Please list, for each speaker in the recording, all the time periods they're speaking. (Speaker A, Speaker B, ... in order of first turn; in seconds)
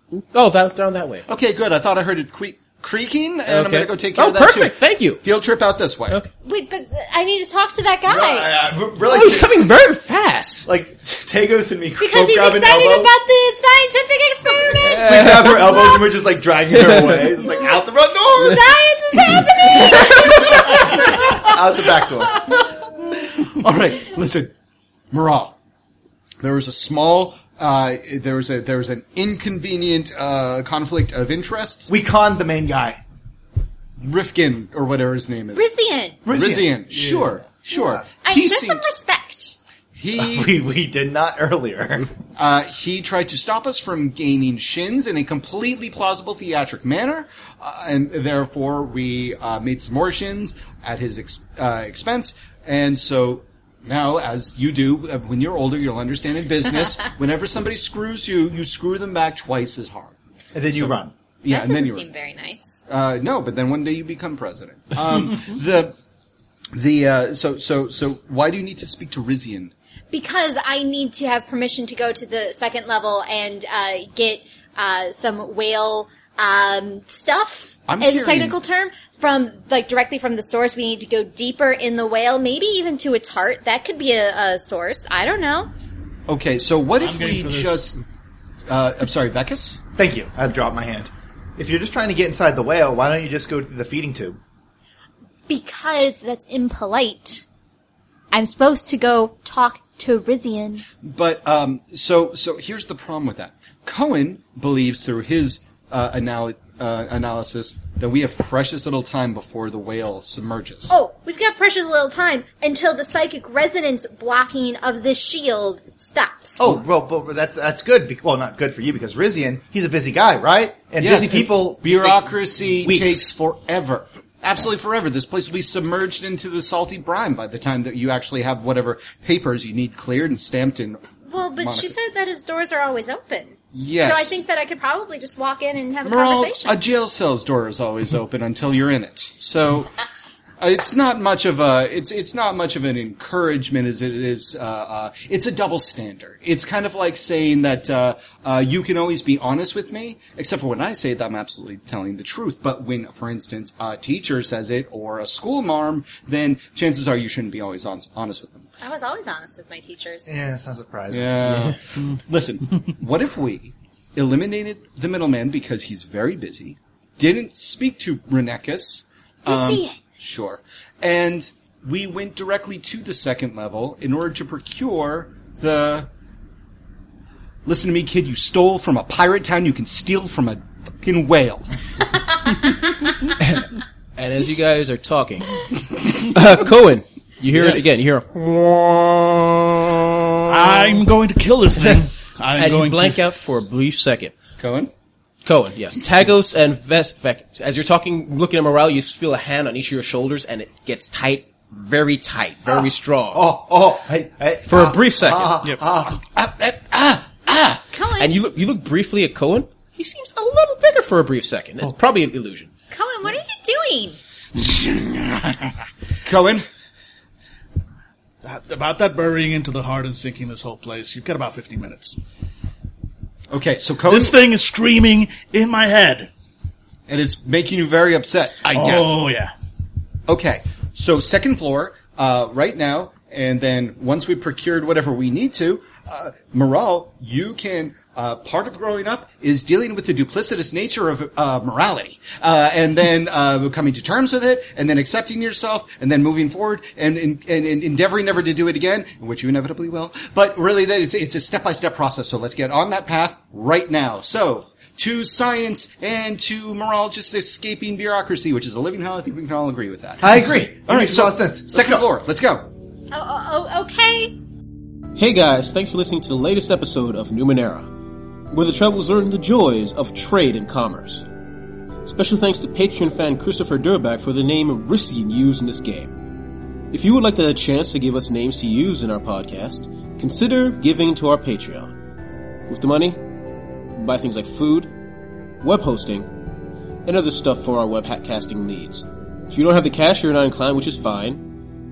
Speaker A: 0.1-1.2, 3.5-5.2, 9.1-10.7, 14.8-15.9, 183.4-191.0, 192.6-194.3, 195.4-203.5, 204.7-205.6, 208.2-212.7, 265.1-267.9, 268.5-271.2, 272.0-276.1, 276.9-281.9, 282.7-283.2, 283.9-284.9, 285.6-286.3, 287.0-291.4
Speaker B: 1.3-6.2, 22.4-22.6, 23.2-24.5, 25.1-25.6, 26.4-31.9, 34.0-35.7, 36.3-38.8, 39.9-40.5, 42.4-60.1, 60.7-62.1, 62.9-65.9, 66.7-69.7, 77.9-78.5, 86.3-88.0, 88.7-89.8, 101.0-110.9, 121.0-131.0, 131.6-131.9, 133.7-134.4, 136.0-139.9, 140.6-158.7, 161.1-176.1, 177.7-181.7, 187.5-187.8, 194.6-194.9, 206.0-207.8, 214.7-215.4, 216.2-216.7, 223.5-224.4, 227.1-229.2, 230.3-262.7
Speaker C: 6.4-8.5, 12.0-15.1, 18.3-21.0, 35.5-36.2, 38.1-39.5, 61.5-62.7, 70.1-85.7, 95.5-97.4, 98.3-100.8, 110.9-116.6, 131.3-136.8, 158.8-160.3, 169.5-170.0, 207.9-208.3, 212.9-214.2, 263.1-264.3
Speaker D: 8.1-9.7, 10.7-13.1, 14.8-18.6, 19.3-22.5, 31.9-33.0, 36.2-36.8, 40.1-42.1, 60.5-61.1, 90.0-94.4, 116.6-122.3, 122.8-123.3, 160.2-161.7, 202.7-206.2, 260.2-262.1
Speaker E: 37.0-37.4, 87.0-87.9, 190.4-193.2, 218.4-222.2, 224.1-226.3, 228.7-229.5